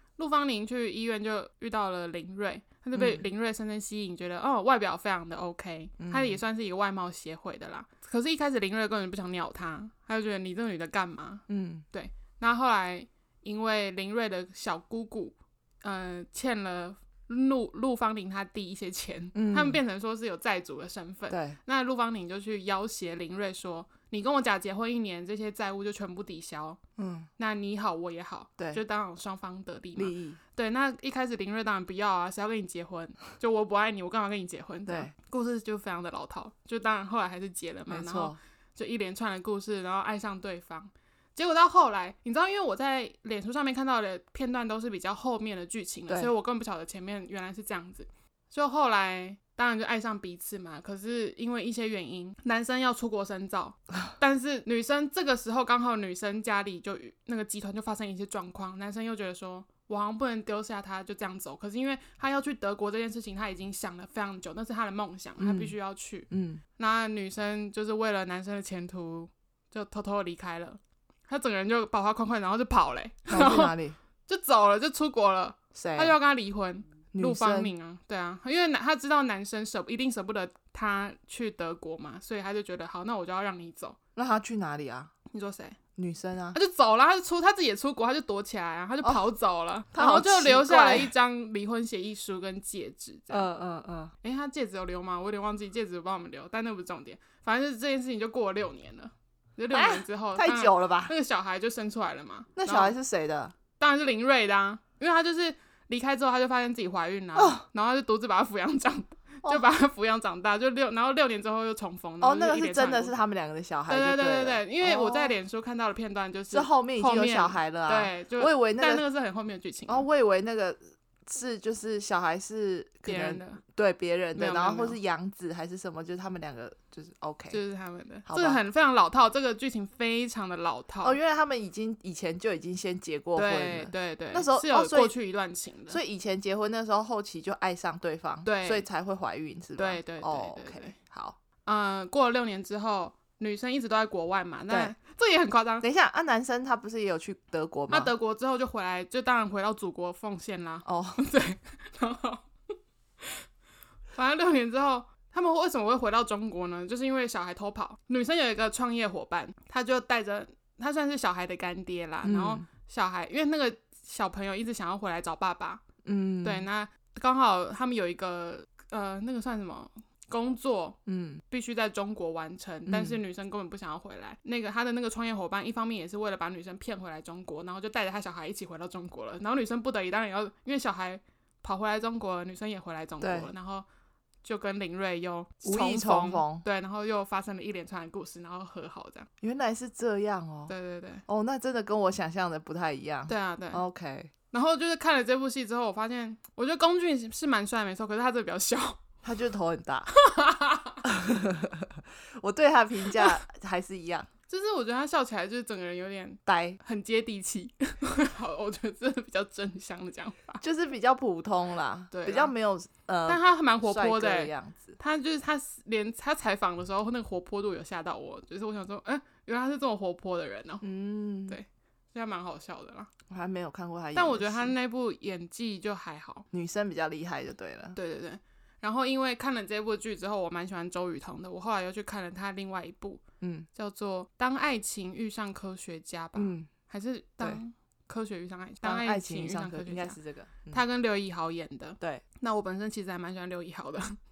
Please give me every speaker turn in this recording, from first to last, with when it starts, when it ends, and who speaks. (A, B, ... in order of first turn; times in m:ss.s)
0:00.2-0:26.8 A
0:02.9-0:03.2 B
0:06.0-0:06.4 B
0:11.5-0:11.8 B
0:19.3-0:19.8 B
0:21.3-0:21.6 B
0:27.0-0:27.3 B
0:27.4-1:13.7 A
0:30.0-0:30.4 B
0:34.9-0:35.1 B
0:37.9-0:38.4 B
1:05.4-1:05.8 B
1:06.3-1:06.6 B
1:13.3-1:14.0 B
1:14.3-1:24.0 A
1:15.7-1:16.2 B
1:17.1-1:17.7 B
1:24.2-1:25.1 B
1:25.3-1:25.8 A
1:26.0-1:26.6 B
1:26.5-1:33.5 A
1:29.9-1:31.1 B
1:33.3-1:34.1 B
1:34.2-1:42.9 A
1:39.7-1:41.1 B
1:42.6-1:43.5 B
1:43.8-1:53.2 A
1:47.4-1:47.6 B
1:52.2-1:55.3 B
1:53.9-2:00.0 A
1:56.5-1:59.0 B
1:59.9-2:07.6 B
2:03.0-2:03.6 A
2:04.4-2:05.0 A
2:07.5-2:11.2 A
2:08.2-2:08.6 B
2:11.0-2:15.1 B
2:13.4-2:16.0 A
2:15.9-2:21.4 B
2:18.4-2:18.8 A
2:19.8-2:20.9 A
2:21.6-2:25.8 A
2:24.7-2:24.9 B
2:25.8-2:28.1 B
2:27.9-2:32.4 A
2:30.8-2:31.2 B
2:34.1-2:45.8 A
2:42.2-2:42.6 B
2:46.0-2:46.6 B
2:46.4-2:51.0 A
2:51.0-2:51.4 B
2:51.5-3:03.8 A
2:52.9-2:53.2 B
3:03.2-3:03.5 B
3:04.4-3:09.3 A
3:05.6-3:06.6 B
3:09.4-3:10.7 B
3:10.7-3:11.2 A
3:11.2-3:14.3 B
3:13.3-3:13.8 A
3:14.5-3:19.0 A
3:19.2-3:20.1 B
3:20.1-3:21.0 A
3:21.0-3:24.3 B
3:24.5-3:30.6 A
3:26.4-3:26.8 B
3:30.6-3:35.0 B
3:32.1-3:32.5 A
3:33.3-3:40.8 A
3:40.8-3:41.6 B
3:41.5-3:43.1 A
3:43.3-3:44.7 B
3:44.1-3:46.4 A
3:46.5-3:48.0 B
3:47.9-3:53.2 A
3:53.4-3:53.7 B
3:53.7-4:00.2 A
3:56.3-3:56.7 B
3:58.8-4:00.8 B
4:00.7-4:04.2 A